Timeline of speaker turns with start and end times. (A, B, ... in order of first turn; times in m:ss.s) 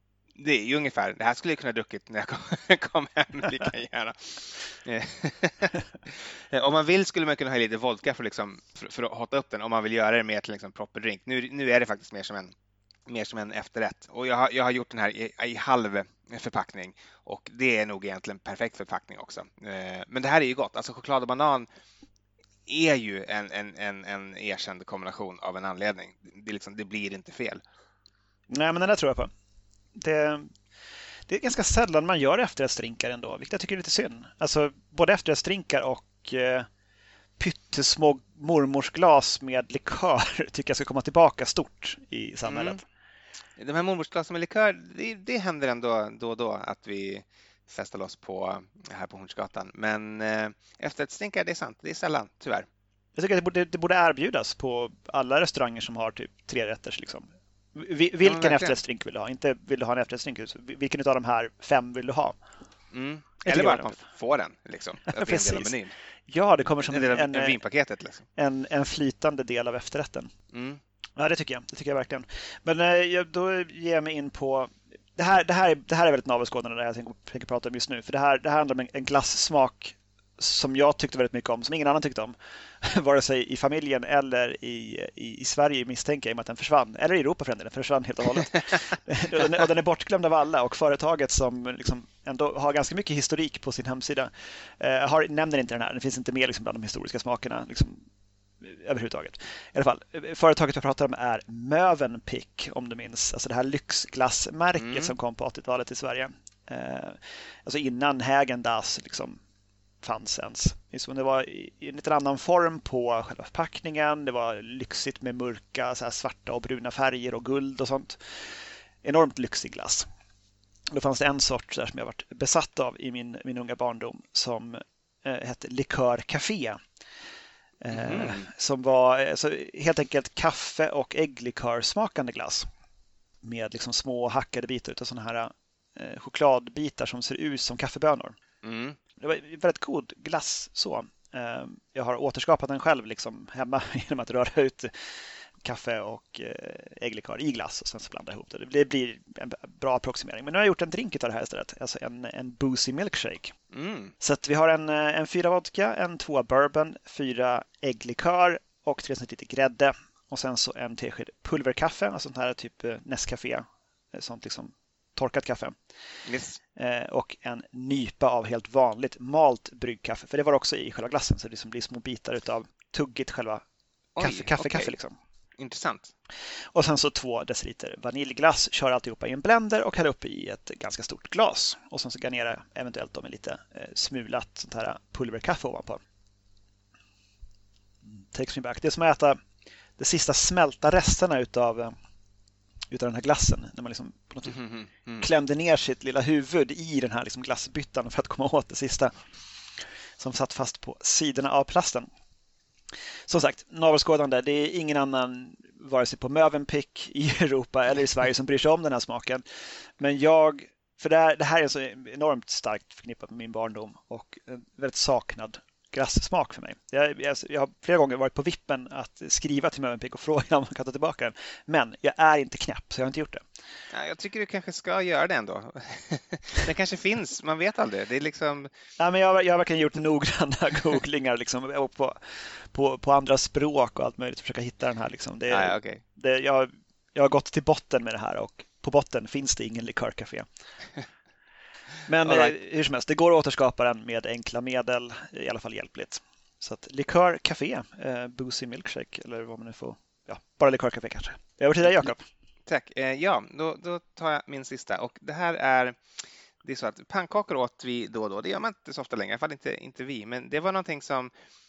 0:00.4-0:12.5 A
0:13.1-0:21.7 A
0:22.7-0:27.6 A
0:28.5-0:29.3 B
0:29.9-0:30.5 B
0:31.3-0:36.7 B
0:37.4-0:42.8 B
0:42.4-0:42.8 A
0:43.6-0:52.7 A
0:53.2-1:02.4 B
0:58.2-0:58.8 A
1:02.9-1:05.9 A
1:03.4-1:04.0 B
1:05.1-1:05.7 B
1:06.3-1:07.6 B
1:06.9-1:08.3 A
1:08.4-1:10.3 B
1:10.5-1:10.8 A
1:11.2-1:38.0 B
1:38.6-1:49.4 B
1:44.8-1:45.1 A
1:50.0-1:58.2 B
1:59.0-2:00.1 B
2:00.9-2:06.8 B
2:07.8-2:12.7 B
2:07.9-2:08.4 A
2:13.4-2:18.4 B
2:18.6-2:19.0 A
2:19.2-2:24.9 B
2:25.6-2:33.5 B
2:33.7-2:34.1 A
2:34.2-2:45.8 B
2:46.2-2:46.6 A
2:46.8-2:53.6 B
2:54.2-2:54.9 A
2:54.2-2:55.2 B
2:55.6-2:56.1 A
2:56.7-3:06.0 B
3:08.2-3:09.4 B
3:10.0-3:11.9 B
3:12.9-3:14.6 B
3:14.5-3:15.2 A
3:15.2-3:19.1 B
3:20.2-3:22.1 B
3:23.3-3:29.4 B
3:30.0-3:43.4 B
3:43.9-3:48.7 A
3:49.0-4:00.4 B
3:55.5-3:56.0 A
4:02.1-4:12.2 B
4:02.2-4:02.5 A
4:12.7-4:16.0 A
4:16.6-4:21.3 A